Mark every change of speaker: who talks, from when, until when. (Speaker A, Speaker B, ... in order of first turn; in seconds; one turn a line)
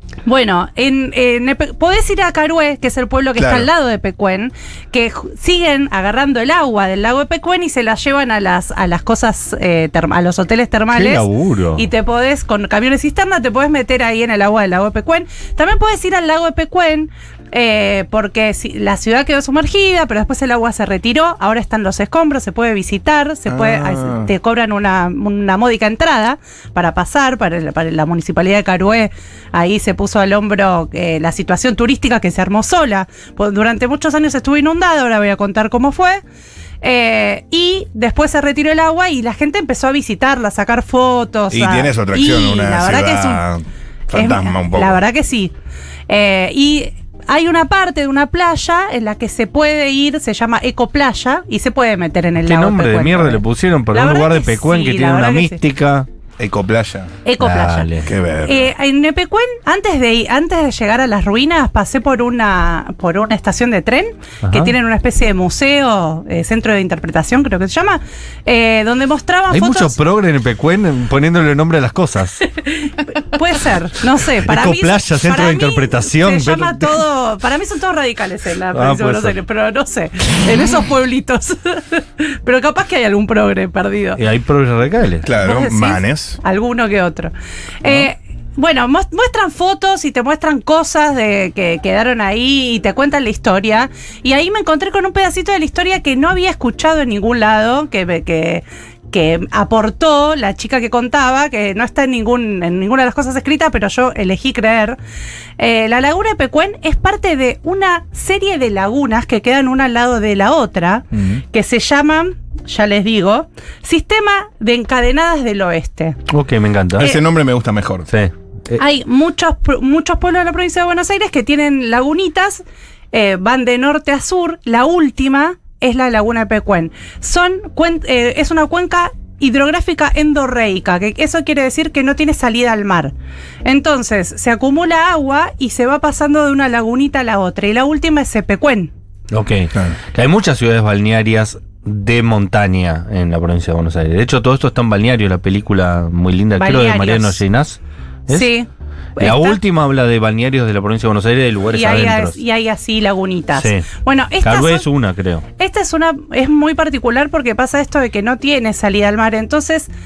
Speaker A: 0.3-36.2
Speaker B: 3.4-3.7
Speaker C: 10.9-11.8
Speaker B: 23.5-24.3
Speaker A: 36.8-43.4
Speaker B: 41.5-45.0
Speaker A: 44.1-45.5
Speaker A: 46.1-55.6
Speaker C: 52.5-56.1
Speaker B: 56.4-57.1
Speaker A: 57.2-57.9
Speaker C: 57.4-58.1
Speaker B: 58.0-58.7
Speaker A: 58.5-70.0
Speaker C: 64.4-64.7
Speaker C: 69.5-72.5
Speaker A: 72.6-84.2
Speaker C: 74.4-77.0
Speaker C: 78.7-79.4
Speaker C: 84.2-85.3
Speaker B: 85.2-86.4
Speaker A: 85.3-105.0
Speaker A: 105.6-116.2
Speaker B: 111.1-111.4
Speaker C: 116.3-117.2
Speaker B: 117.0-118.1
Speaker C: 118.1-118.8
Speaker A: 118.8-133.1
Speaker A: 133.7-138.9
Speaker C: 139.3-148.5
Speaker A: 146.6-147.4
Speaker A: 148.3-149.6
Speaker C: 149.2-152.4
Speaker A: 151.7-154.9
Speaker C: 153.5-153.9
Speaker C: 154.4-155.4
Speaker A: 155.6-159.9